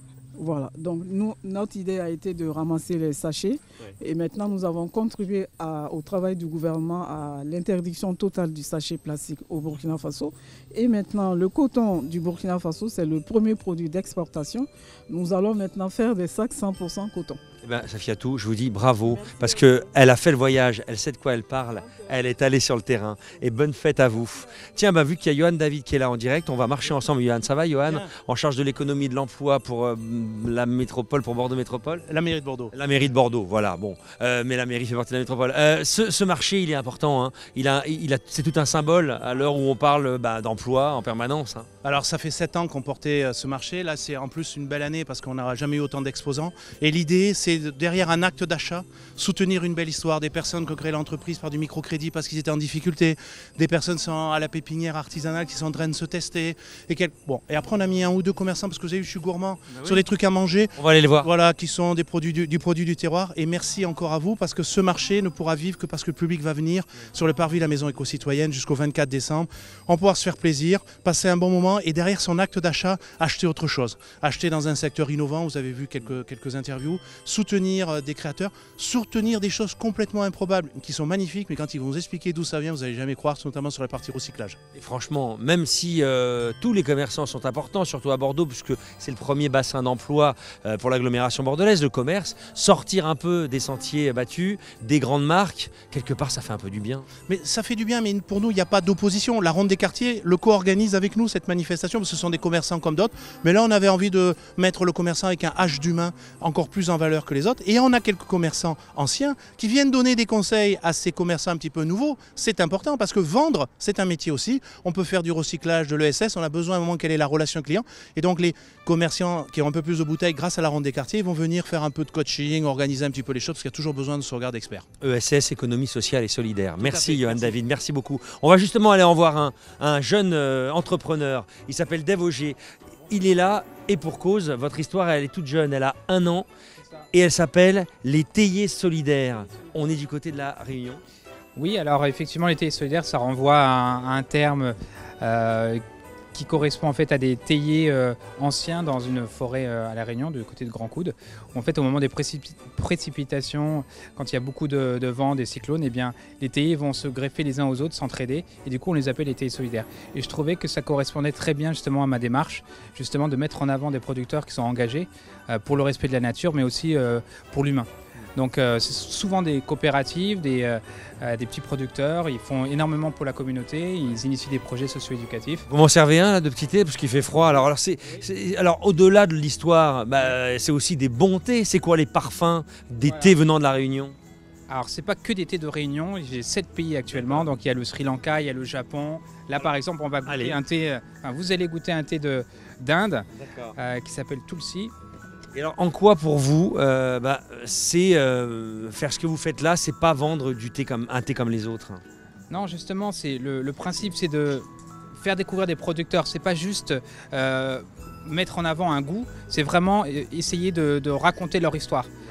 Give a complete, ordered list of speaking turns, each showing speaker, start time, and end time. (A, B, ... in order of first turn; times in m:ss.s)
0:00.4-0:17.4 A
0:17.6-0:32.0 B
0:32.1-0:32.7 C
0:32.7-0:41.7 B
0:41.8-1:24.6 C
0:59.7-1:00.0 B
1:00.8-1:01.3 B
1:24.8-1:37.0 B
1:37.3-2:04.8 C
2:05.0-2:12.6 B
2:06.8-2:07.5 C
2:13.1-2:16.5 B
2:17.1-2:21.0 B
2:21.6-2:25.8 D
2:26.3-2:55.6 D
2:55.7-3:04.2 B
3:03.0-3:03.4 D
3:04.7-3:13.2 D
3:07.1-3:07.5 B
3:10.3-3:10.6 B
3:13.4-3:13.7 B
3:13.8-3:14.9 D
3:15.5-3:22.0 B
3:22.5-3:24.7 D
3:25.2-3:32.1 D